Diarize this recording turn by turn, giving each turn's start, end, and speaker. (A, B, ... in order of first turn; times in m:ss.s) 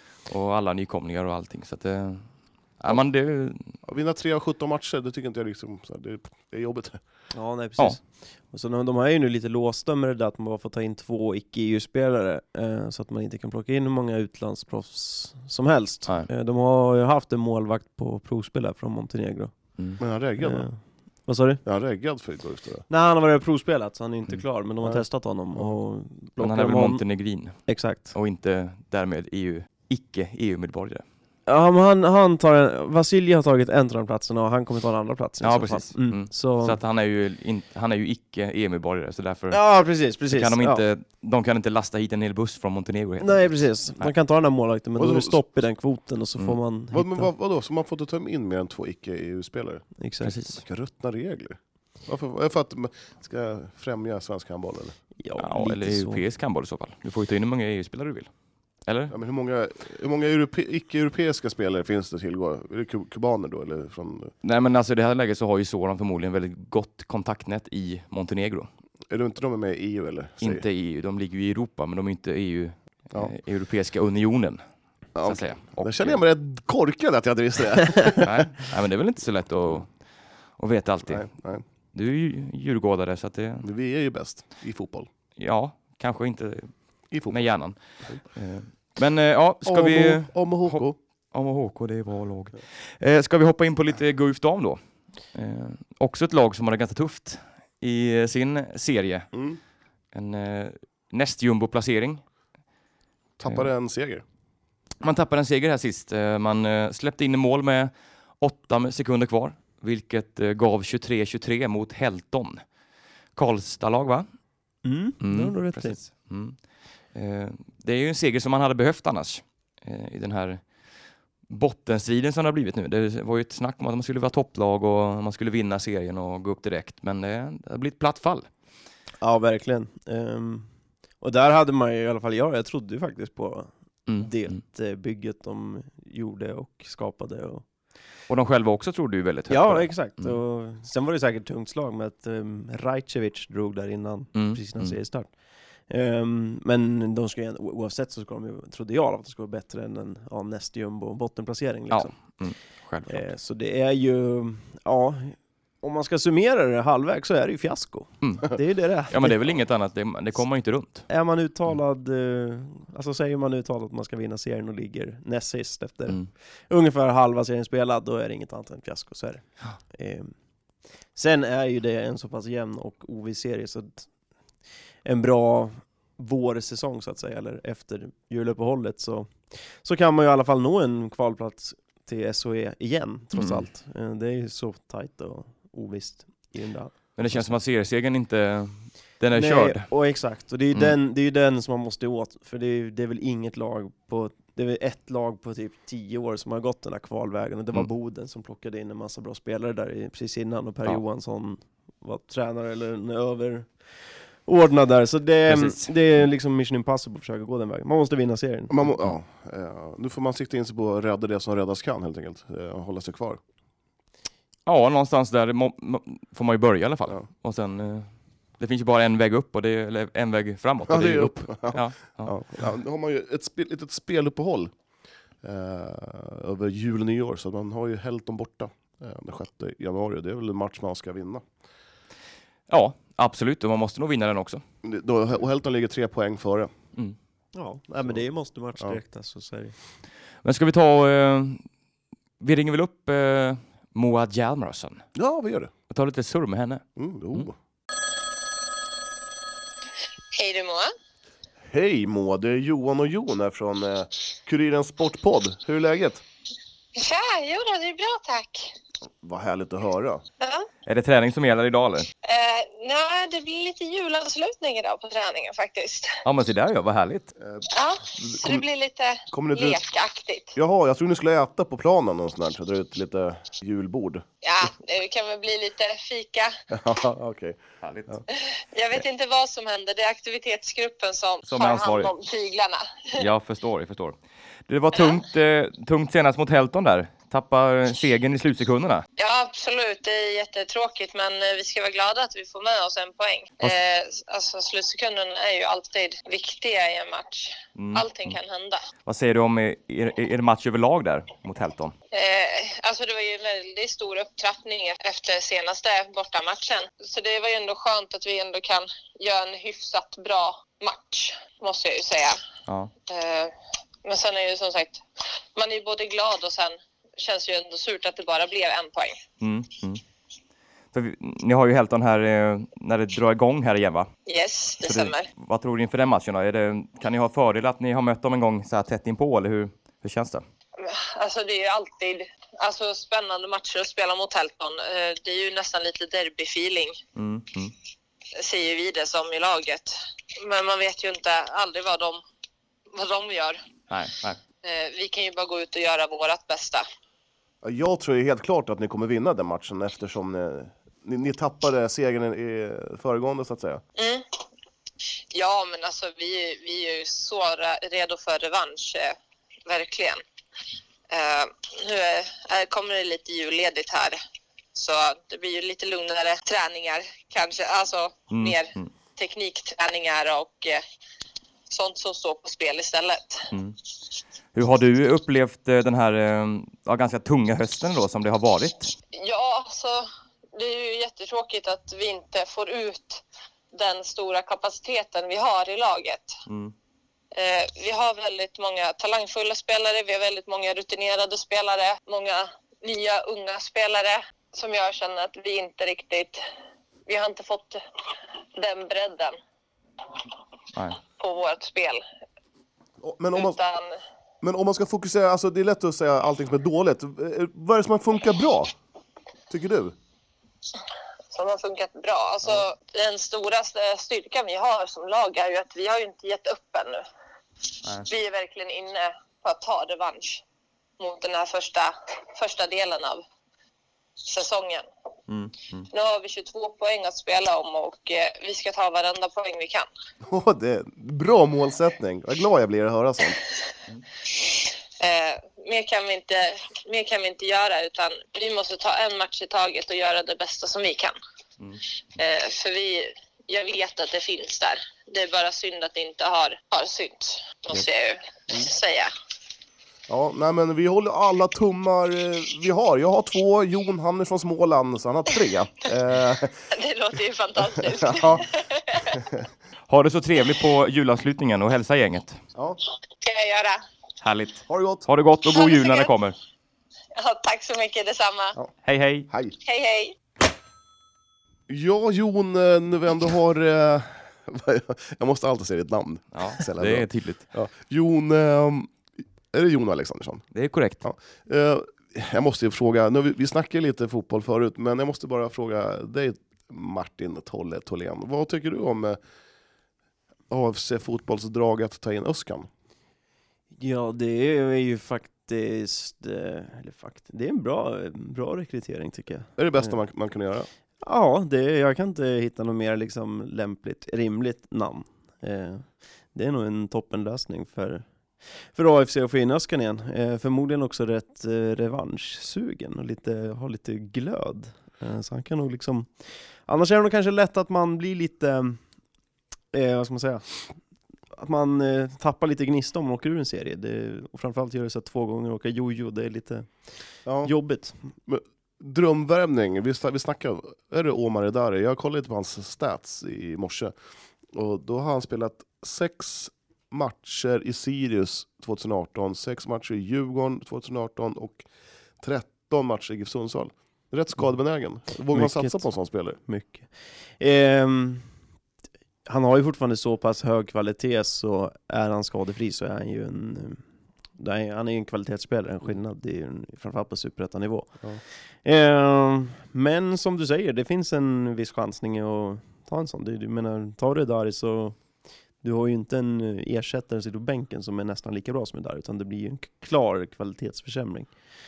0:00.3-0:03.7 A
0:03.8-0:07.0 B
0:07.3-0:19.5 C
0:20.0-0:20.7 B
0:20.4-0:21.6 C
0:21.6-0:22.8 B
0:22.9-0:27.0 C
0:24.8-0:25.7 B
0:26.4-0:31.0 A
0:27.6-0:28.1 C
0:31.5-0:36.8 C
0:35.4-0:39.6 A
0:39.5-0:40.8 C
0:40.3-0:44.1 A
0:43.2-0:47.3 C
0:45.0-0:45.4 B
0:46.9-0:49.8 B
0:50.0-0:50.3 C
0:50.2-0:50.6 A
0:50.5-0:54.9 B
0:55.2-0:56.2 C
0:55.4-0:58.3 A
0:58.8-0:59.1 A
0:59.1-1:04.3 B
1:04.4-1:08.7 A
1:09.1-1:10.6 B
1:10.4-1:14.6 A
1:15.1-1:18.3 B
1:15.2-1:16.2 A
1:18.2-1:19.9 A
1:20.6-1:21.2 A
1:21.1-1:21.6 B
1:21.9-1:23.7 A
1:23.6-1:25.1 B
1:25.4-1:26.7 A
1:27.1-1:27.5 B
1:27.3-1:34.8 A
1:29.6-1:31.0 B
1:35.3-1:39.3 A
1:39.3-1:39.6 B
1:40.1-1:42.2 A
1:43.4-1:44.2 B
1:45.0-1:52.6 A
1:53.3-1:54.2 A
1:54.8-1:56.0 C
1:55.2-1:56.6 A
1:57.1-2:00.6 A
2:01.5-2:08.5 A
2:09.2-2:10.7 C
2:11.2-2:17.6 C
2:14.1-2:14.6 A
2:18.3-2:20.4 A
2:19.5-2:25.3 C
2:24.3-2:25.0 A
2:25.9-2:32.1 C
2:31.9-2:33.3 A
2:33.1-2:39.6 C
2:38.2-2:38.6 A
2:39.1-2:41.1 A
2:41.1-2:50.3 C
2:51.1-2:54.1 C
2:55.0-3:06.9 C
3:03.3-3:03.6 A
3:07.2-3:09.9 A
3:09.3-3:23.7 C
3:24.4-3:28.8 C
3:25.5-3:25.9 A
3:28.7-3:33.4 B
3:34.6-3:42.3 A
3:40.9-3:44.7 B
3:45.4-3:51.4 B
3:52.7-3:54.6 A
3:54.8-3:56.7 B
3:57.5-3:59.7 C
4:00.4-4:01.6 A
4:02.4-4:05.0 A
4:05.1-4:05.7 B
4:05.9-4:07.4 A
4:07.0-4:07.5 B
4:10.3-4:10.9 D
4:11.7-4:16.2 B
4:17.0-4:18.7 D
4:19.2-4:20.2 B
4:20.4-4:20.7 D
4:20.8-4:22.1 A
4:22.2-4:26.2 D
4:26.2-4:27.3 A
4:27.7-4:30.6 D
4:28.2-4:28.6 B
4:29.3-4:29.8 B
4:30.6-4:34.2 B
4:34.4-4:36.5 D
4:36.7-4:37.6 B
4:37.8-4:38.2 A
4:38.3-4:43.1 D
4:41.4-4:42.1 A
4:43.1-4:49.0 A
4:44.9-4:45.2 D
4:49.2-4:58.8 D
4:57.8-4:58.4 A
4:59.0-5:01.9 A
5:02.1-5:12.4 D
5:13.1-5:13.5 D
5:14.0-5:15.0 D
5:15.5-5:19.2 D
5:19.4-5:20.0 A
5:20.9-5:24.1 A
5:24.3-5:25.3 D
5:24.8-5:30.4 A
5:30.8-5:37.0 D
5:37.2-5:37.7 A
5:38.4-5:42.2 D
5:42.9-5:43.6 D
5:43.9-5:44.4 A
5:44.6-5:46.8 D
5:47.6-5:53.8 B
5:54.0-5:54.2 D
5:55.3-5:59.2 D
5:59.7-6:00.2 D
6:01.1-6:04.2 D
6:04.7-6:10.8 D
6:08.3-6:08.9 A
6:11.7-6:13.5 D
6:13.5-6:13.8 A
6:14.5-6:18.9 A
6:19.1-6:23.2 D
6:23.7-6:26.4 D
6:26.5-6:26.7 A
6:27.3-6:36.4 D
6:37.0-6:37.8 D
6:38.5-6:39.4 D
6:40.7-6:41.0 A
6:41.0-6:42.0 D
6:43.0-6:43.6 B
6:43.3-6:43.9 D
6:44.4-6:48.7 B
6:49.5-6:49.9 B
6:51.3-6:57.0 D
6:58.0-7:00.4 D
7:01.0-7:03.2 D
7:04.2-7:04.8 D
7:05.3-7:05.9 A
7:05.9-7:09.9 D
7:10.2-7:13.4 B
7:14.3-7:21.1 D
7:22.2-7:29.1 D
7:30.1-7:36.6 B
7:36.7-7:39.2 D
7:37.8-7:38.5 B
7:39.1-7:39.4 B
7:39.9-7:42.4 A
7:43.1-7:43.8 D
7:44.2-7:46.4 A
7:44.7-7:45.0 B
7:45.4-7:46.1 D
7:47.1-7:48.6 D
7:48.8-7:49.3 A
7:49.3-7:49.5 B
7:49.6-7:50.2 D
7:51.7-7:58.9 B
7:56.3-7:57.5 A
7:59.5-8:00.4 B
8:00.5-8:01.0 A
8:01.0-8:09.2 B
8:10.5-8:12.7 B
8:13.8-8:19.9 C
8:19.6-8:20.7 B
8:21.0-8:28.0 C
8:28.7-8:36.1 C
8:36.7-8:38.8 C
8:39.7-8:40.4 C
8:41.3-8:46.7 C
8:47.2-8:47.5 B
8:47.4-8:48.0 C
8:48.2-8:53.9 B
8:54.5-9:01.6 B
9:02.2-9:06.4 B
9:05.3-9:05.9 C
9:06.4-9:08.3 C
9:09.3-9:13.8 C
9:14.4-9:18.0 C
9:18.6-9:25.0 C
9:25.6-9:31.3 C